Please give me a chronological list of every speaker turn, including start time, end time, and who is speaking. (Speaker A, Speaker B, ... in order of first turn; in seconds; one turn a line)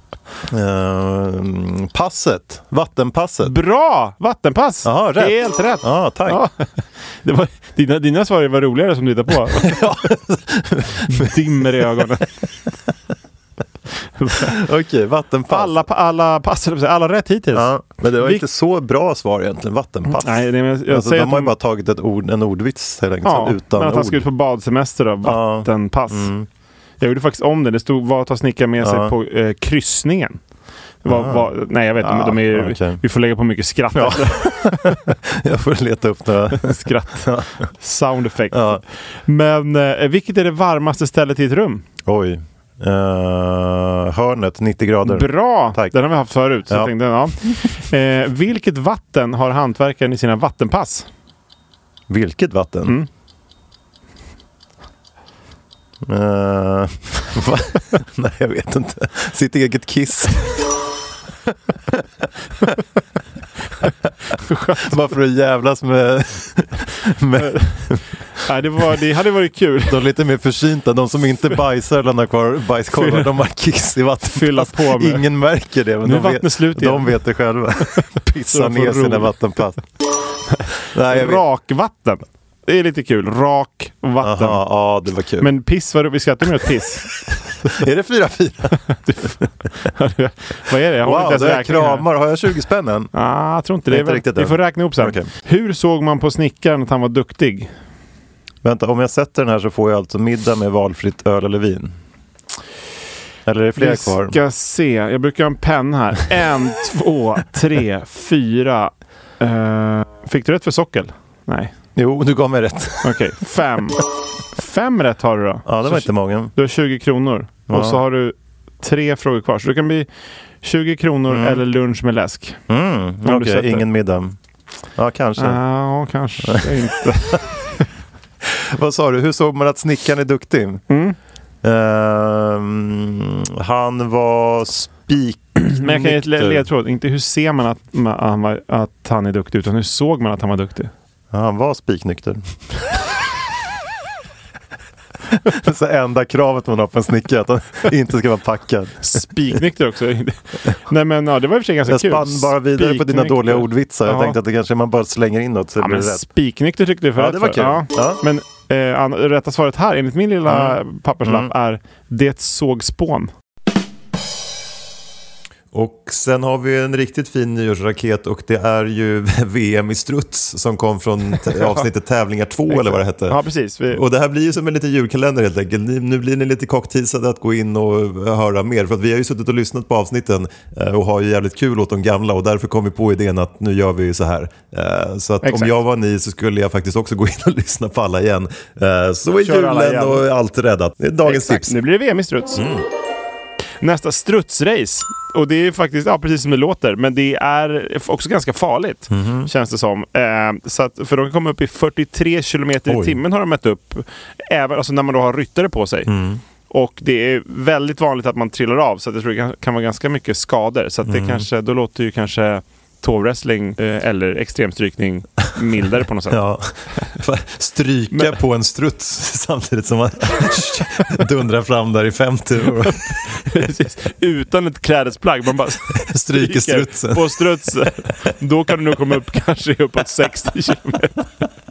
Speaker A: 0.5-3.5
Speaker B: 3.4-9.9
Speaker A: 4.8-6.4
Speaker A: 9.6-11.3
Speaker B: 11.0-12.4
Speaker B: 14.2-14.5
Speaker A: 14.4-15.8
Speaker B: 15.5-18.4
Speaker A: 17.5-24.3
Speaker B: 20.1-21.5
Speaker B: 23.2-26.3
Speaker A: 25.2-26.5
Speaker B: 27.0-30.4
Speaker A: 28.8-29.1
Speaker B: 31.0-35.0
Speaker A: 31.1-33.0
Speaker A: 34.0-37.7
Speaker B: 36.6-41.8
Speaker A: 38.5-38.8
Speaker A: 42.1-46.0
Speaker B: 45.0-51.1
Speaker A: 46.7-47.6
Speaker A: 52.1-53.0
Speaker A: 56.0-60.7
Speaker B: 64.3-65.0
Speaker A: 64.8-68.1
Speaker B: 67.4-67.7
Speaker B: 68.4-70.1
Speaker A: 69.9-79.8
Speaker B: 72.9-73.3
Speaker B: 74.2-75.3
Speaker B: 76.0-77.3
Speaker B: 78.5-79.4
Speaker B: 80.5-84.6
Speaker A: 80.9-81.4
Speaker A: 84.2-85.5
Speaker B: 85.4-87.2
Speaker A: 87.7-88.8
Speaker B: 88.9-92.1
Speaker A: 91.0-93.1
Speaker B: 93.1-97.7
Speaker A: 93.9-95.3
Speaker A: 98.6-102.0
Speaker A: 103.5-104.4
Speaker B: 103.8-111.7
Speaker A: 112.0-113.3
Speaker B: 113.0-114.0
Speaker B: 114.5-120.1
Speaker A: 115.7-116.5
Speaker A: 117.7-118.0
Speaker B: 120.6-122.6
Speaker A: 121.3-121.6
Speaker A: 122.7-124.4
Speaker B: 123.2-123.8
Speaker A: 125.0-125.6
Speaker B: 125.4-127.8
Speaker A: 126.4-126.7
Speaker A: 128.4-130.8
Speaker B: 130.9-131.2
Speaker A: 131.6-136.7
Speaker B: 135.8-140.9
Speaker A: 141.3-142.4
Speaker A: 145.4-149.2
Speaker B: 149.0-154.4
Speaker A: 151.8-156.3
Speaker B: 155.8-163.3
Speaker A: 157.2-158.2
Speaker A: 160.5-161.5
Speaker A: 165.7-173.4
Speaker B: 171.5-171.8
Speaker B: 172.7-174.0
Speaker A: 173.9-191.8
Speaker B: 185.4-185.8
Speaker B: 189.4-190.2
Speaker B: 191.2-192.6
Speaker A: 192.6-192.8
Speaker B: 193.8-206.1
Speaker A: 199.1-199.5
Speaker A: 202.9-203.2
Speaker A: 206.1-206.4
Speaker B: 206.7-216.4
Speaker A: 211.1-211.5
Speaker A: 216.3-223.2
Speaker B: 218.1-218.4
Speaker B: 222.8-231.3
Speaker A: 226.0-227.4